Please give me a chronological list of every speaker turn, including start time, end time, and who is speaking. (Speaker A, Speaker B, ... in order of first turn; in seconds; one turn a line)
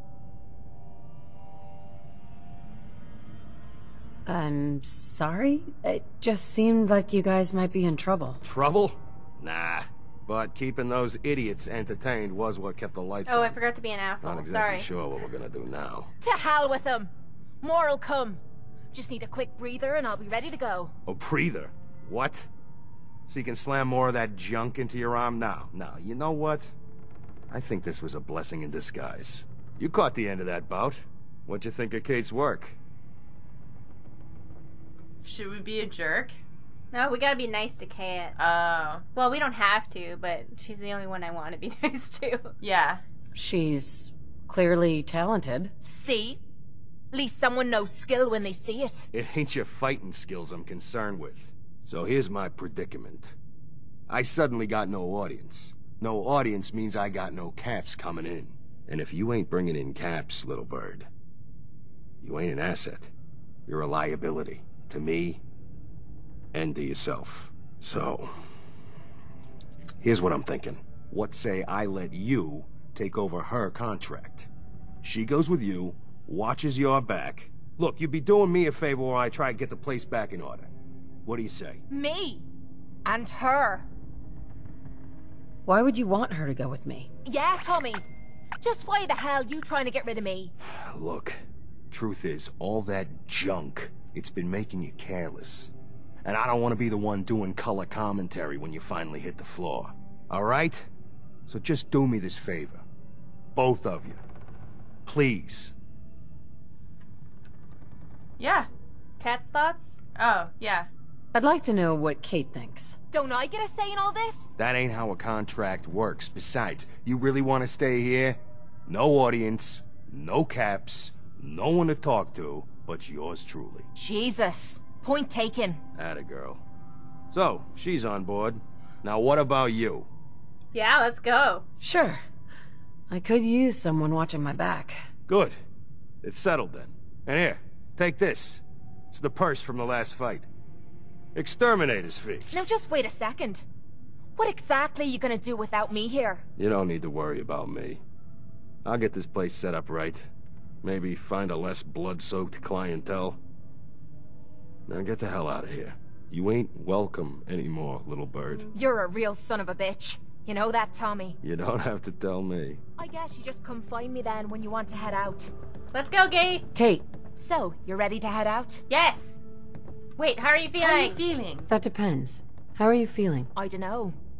Speaker A: 4.3-8.4
Speaker B: 8.4-13.6
Speaker C: 13.3-14.9
Speaker B: 14.2-16.1
Speaker D: 16.2-17.1
Speaker D: 17.6-18.4
Speaker D: 18.9-20.9
Speaker B: 21.1-22.5
Speaker B: 23.3-26.7
Speaker B: 27.5-32.8
Speaker E: 35.2-36.4
Speaker C: 36.9-38.4
Speaker E: 38.4-39.0
Speaker C: 39.1-42.5
Speaker E: 42.6-43.0
Speaker A: 43.4-45.7
Speaker D: 45.8-46.4
Speaker D: 47.1-49.1
Speaker B: 49.1-53.3
Speaker B: 54.1-61.1
Speaker B: 62.2-63.1
Speaker B: 63.7-65.4
Speaker B: 66.5-68.3
Speaker B: 70.0-74.5
Speaker B: 75.0-80.7
Speaker B: 81.3-81.8
Speaker D: 81.9-82.5
Speaker D: 83.0-83.9
Speaker A: 85.7-87.1
Speaker D: 87.3-88.0
Speaker D: 88.6-90.5
Speaker B: 90.7-95.7
Speaker B: 96.2-100.9
Speaker B: 101.5-102.8
Speaker B: 103.5-104.2
Speaker B: 105.0-105.7
Speaker E: 108.4-108.7
Speaker C: 109.2-110.0
Speaker E: 110.2-110.9
Speaker A: 111.3-113.0
Speaker D: 113.1-114.5
Speaker B: 114.6-123.9
Speaker D: 124.0-125.8
Speaker B: 126.0-126.6
Speaker B: 127.3-130.1
Speaker C: 130.7-131.6
Speaker A: 131.8-132.2
Speaker A: 133.1-135.0
Speaker B: 135.3-135.6
Speaker B: 136.2-140.5
Speaker B: 141.3-142.4
Speaker D: 142.5-143.7
Speaker D: 144.4-146.4
Speaker B: 146.6-148.0
Speaker B: 148.8-150.3
Speaker B: 150.8-153.4
Speaker B: 154.9-158.7
Speaker D: 158.7-161.4
Speaker B: 161.4-162.8
Speaker D: 163.0-165.5
Speaker C: 165.9-166.7
Speaker A: 166.8-167.1
Speaker D: 167.3-168.8
Speaker C: 168.9-169.4
Speaker C: 170.2-171.2
Speaker E: 170.8-171.7
Speaker A: 171.7-173.5
Speaker D: 173.6-174.2